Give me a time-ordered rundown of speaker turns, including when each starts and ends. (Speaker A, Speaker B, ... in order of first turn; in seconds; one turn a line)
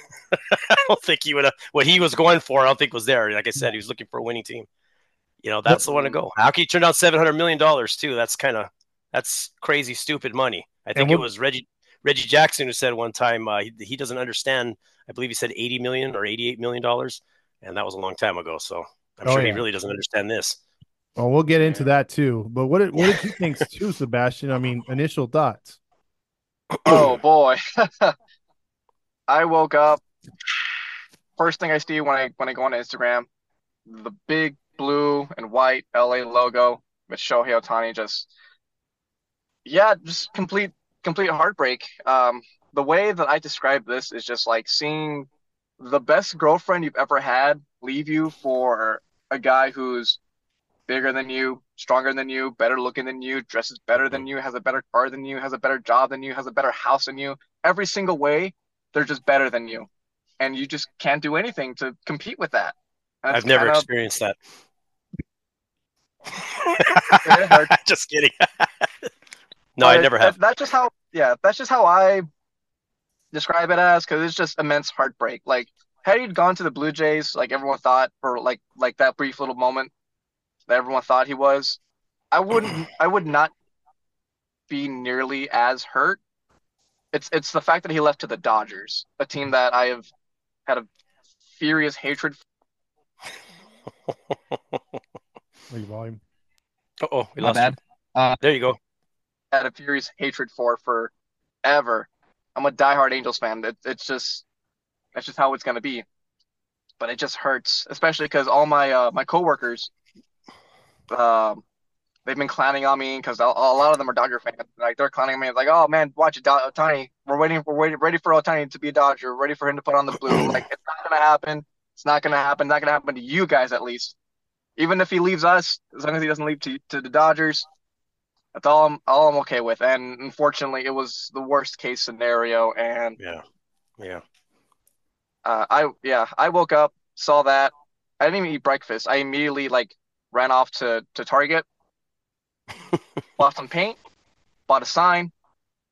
Speaker A: 0.3-4.7
Speaker A: 5.4-20.6
Speaker B: 5.7-6.1
Speaker B: 10.9-11.2
Speaker B: 19.2-19.6
Speaker B: 21.2-25.8
Speaker A: 23.0-23.4
Speaker C: 26.8-28.1
Speaker C: 29.3-30.0
Speaker C: 31.4-33.3
Speaker C: 33.9-38.3
Speaker C: 39.6-45.3
Speaker C: 45.8-50.2
Speaker C: 50.9-59.9
Speaker C: 60.4-63.9
Speaker A: 63.3-64.3
Speaker A: 66.4-69.1
Speaker C: 67.2-67.7
Speaker A: 69.8-70.3
Speaker C: 69.8-72.2
Speaker C: 73.3-79.9
Speaker C: 80.7-81.8
Speaker C: 82.3-83.5
Speaker C: 84.7-86.2
Speaker C: 87.1-90.1
Speaker C: 91.5-92.4
Speaker A: 94.3-94.8
Speaker B: 95.7-96.2
Speaker A: 97.0-97.8
Speaker C: 97.4-98.4
Speaker A: 98.4-98.8
Speaker C: 99.5-101.1
Speaker C: 101.6-104.4
Speaker C: 105.1-106.0
Speaker C: 107.0-109.9
Speaker C: 111.1-111.6
Speaker C: 112.2-124.1
Speaker C: 124.8-127.7
Speaker C: 128.5-133.2
Speaker C: 135.4-141.7
Speaker C: 143.4-144.0
Speaker C: 144.7-145.3